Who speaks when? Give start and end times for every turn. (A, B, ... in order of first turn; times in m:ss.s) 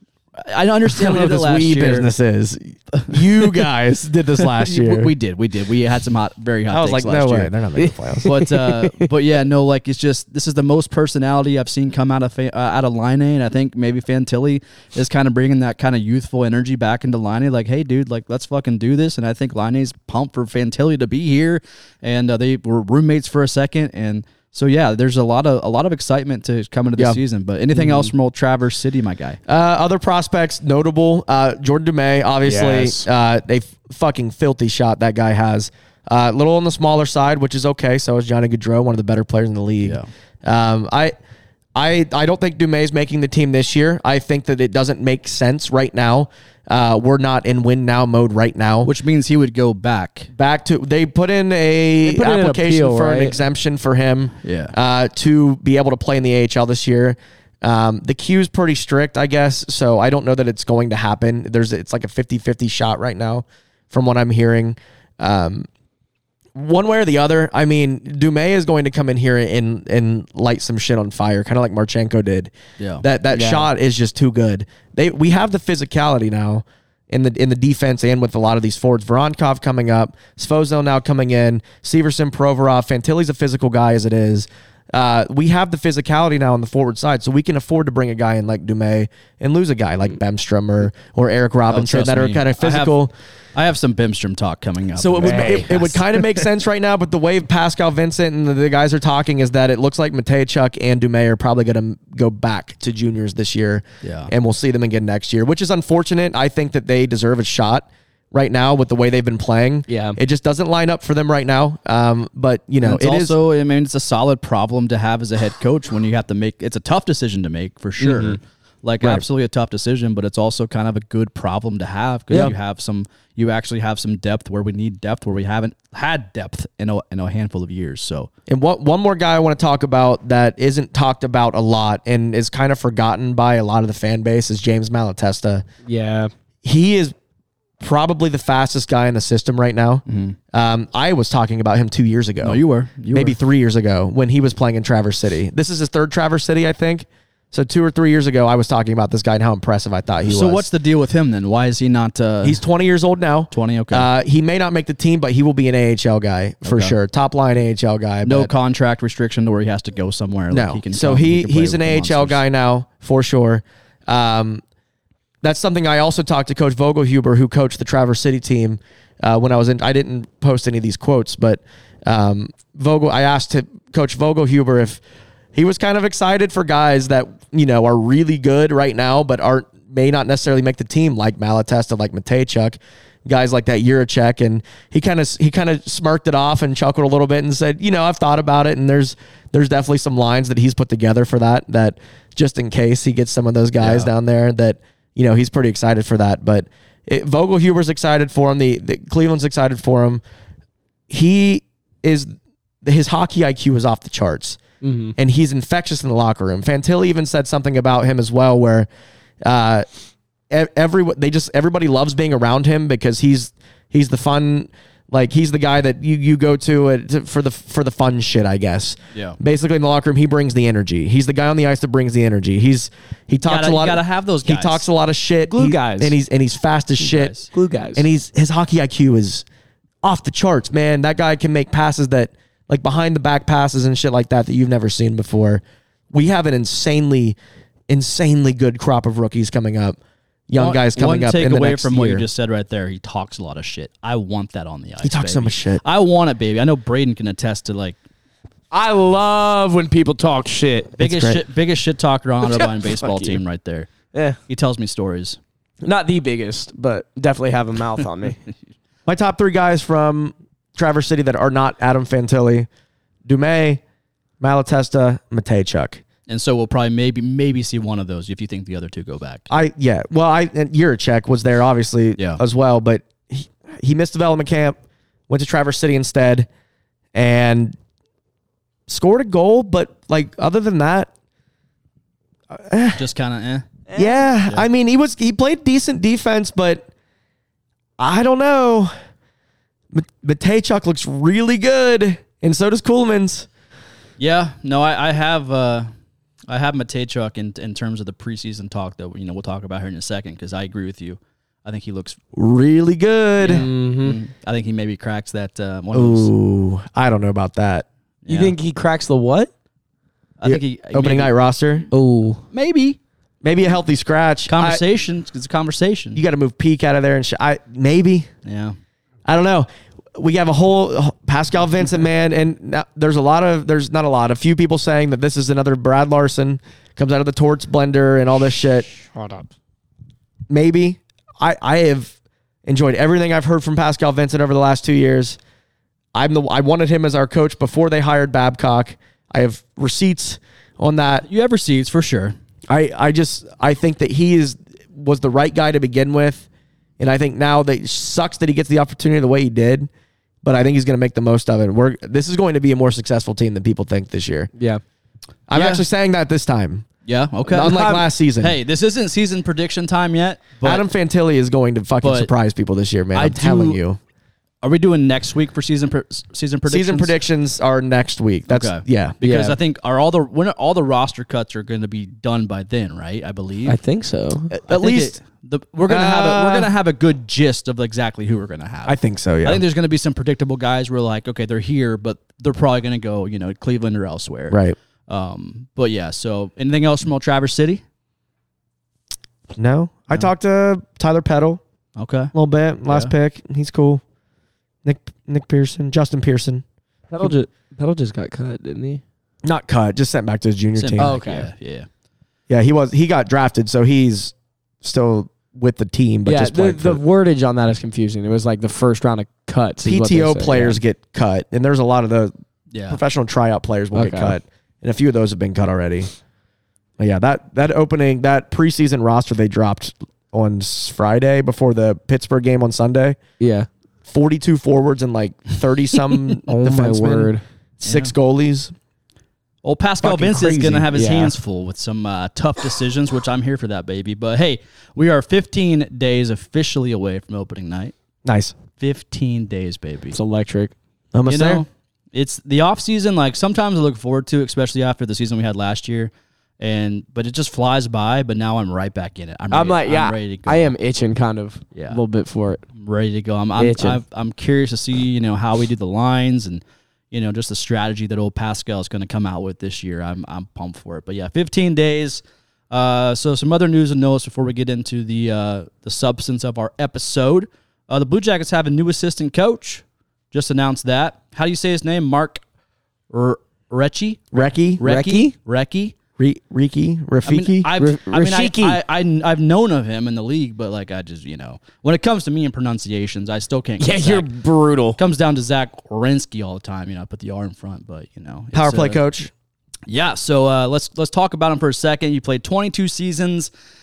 0:00.4-0:02.1 A
0:00.9-0:05.1 B
0:02.9-0:03.5 A
0:04.6-0:07.5 A
0:06.7-0:08.3 B
0:07.8-0:09.1 C
0:08.2-0:29.4 A
0:27.8-0:28.1 C
0:29.5-0:41.1 B
0:32.4-0:33.0 C
0:39.8-0:40.1 A
0:41.7-0:48.9 B
0:48.8-0:50.3 A
0:50.3-1:05.7 B
0:52.0-0:53.4 C
0:54.4-0:54.7 A
1:06.5-1:33.1 B
1:12.8-1:13.0 A
1:13.3-1:13.7 C
1:31.7-1:33.0 A
1:33.5-1:36.0 A
1:35.0-1:53.3 B
1:35.2-1:35.7 C
1:44.0-1:44.3 A
1:49.9-1:50.2 C
1:52.8-2:08.3 A
1:58.0-1:58.4 C
2:08.5-2:15.6 B
2:15.8-2:16.3 C
2:16.6-2:17.1 B
2:17.8-2:30.7 B
2:20.0-2:20.4 A
2:22.4-2:23.4 A
2:30.2-2:32.6 A
2:32.4-2:38.5 B
2:33.5-2:34.1 A
2:36.6-2:36.9 A
2:38.2-2:42.4 A
2:40.5-2:44.6 B
2:45.4-2:55.0 B
2:55.5-3:20.2 B
3:13.8-3:14.1 A
3:21.1-3:22.3 B
3:22.8-3:24.6 B
3:24.8-3:25.1 C
3:25.2-3:28.9 B
3:29.4-3:29.8 B
3:30.5-3:47.3 B
3:43.4-3:44.8 A
3:45.5-3:46.2 C
3:47.0-3:47.5 A
3:47.5-3:48.0 C
3:48.0-3:49.4 B
3:50.0-3:57.4 B
3:57.9-4:00.0 B
4:00.5-4:02.2 B
4:00.6-4:08.0 A
4:05.0-4:05.8 B
4:08.7-4:10.9 C
4:11.0-4:11.4 B
4:11.0-4:13.9 A
4:12.4-4:13.4 C
4:14.5-4:15.4 A
4:15.8-4:18.4 C
4:19.0-4:22.7 B
4:23.2-4:23.8 B
4:24.4-4:26.0 B
4:26.3-4:29.4 A
4:29.5-4:34.8 B
4:35.3-4:36.5 B
4:37.1-4:37.8 B
4:38.9-4:41.1 B
4:42.5-4:43.0 B
4:43.0-4:43.7 A
4:43.9-4:44.2 C
4:43.9-4:46.9 B
4:48.0-4:48.9 B
4:49.9-4:53.5 B
4:54.2-4:55.9 A
4:56.5-5:02.2 A
5:02.3-5:03.6 B
5:03.4-5:06.3 A
5:03.5-5:04.2 C
5:05.9-5:07.8 B
5:08.2-5:08.5 A
5:08.3-5:09.5 C
5:10.4-5:11.3 A
5:10.4-5:11.9 B
5:11.9-5:12.4 C
5:12.5-5:13.0 A
5:13.4-5:14.8 B
5:14.5-5:16.2 A
5:16.1-5:18.3 B
5:18.4-5:18.8 A
5:19.2-5:28.9 B
5:29.0-5:29.4 C
5:30.5-5:32.1 B
5:32.6-5:35.4 B
5:36.1-5:41.3 B
5:41.2-5:42.3 A
5:42.7-5:46.5 B
5:47.0-5:49.9 B
5:50.4-5:54.5 B
5:54.6-5:54.8 C
5:55.5-5:56.8 B
5:55.5-5:55.8 A
5:57.0-6:00.8 A
5:57.5-5:58.6 B
5:57.6-5:58.0 C
6:00.6-6:04.0 B
6:02.0-6:02.3 A
6:03.1-6:03.8 A
6:04.6-6:07.1 A
6:06.7-6:09.2 B
6:08.5-6:13.8 A
6:09.2-6:09.6 C
6:13.6-6:14.5 C
6:14.5-6:15.2 B
6:14.7-6:27.8 A
6:15.8-6:16.7 B
6:18.9-6:19.6 B
6:24.5-6:24.8 B
6:29.5-6:31.6 B
6:32.0-6:32.3 A
6:32.3-6:34.0 B
6:34.8-6:36.6 B
6:37.1-6:39.0 C
6:39.4-6:41.2 B
6:40.8-6:41.9 A
6:41.0-6:41.5 C
6:42.5-6:47.0 B
6:46.2-6:50.8 C
6:49.8-6:52.3 B
6:52.7-6:53.0 A
6:52.9-6:56.1 B
6:53.9-6:54.4 C
6:57.0-7:03.2 B
7:03.4-7:03.7 C
7:04.1-7:08.7 B
7:06.2-7:07.4 C
7:07.8-7:08.1 A
7:09.6-7:17.9 A
7:10.0-7:10.9 B
7:10.9-7:11.3 C
7:18.2-7:18.5 B
7:18.8-7:20.2 A
7:20.1-7:20.7 C
7:21.1-7:21.6 B
7:21.3-7:30.7 A
7:29.5-7:32.6 C
7:31.7-7:32.0 A
7:32.8-7:52.4 A
7:33.6-7:34.0 C
7:53.1-7:55.9 A
7:54.3-7:54.8 B
7:54.8-7:55.3 C
7:56.2-7:58.2 B
7:57.2-8:04.3 A
7:57.8-7:58.8 C
8:03.8-8:05.0 C
8:05.0-8:09.0 A
8:08.5-8:09.3 B
8:09.9-8:13.5 A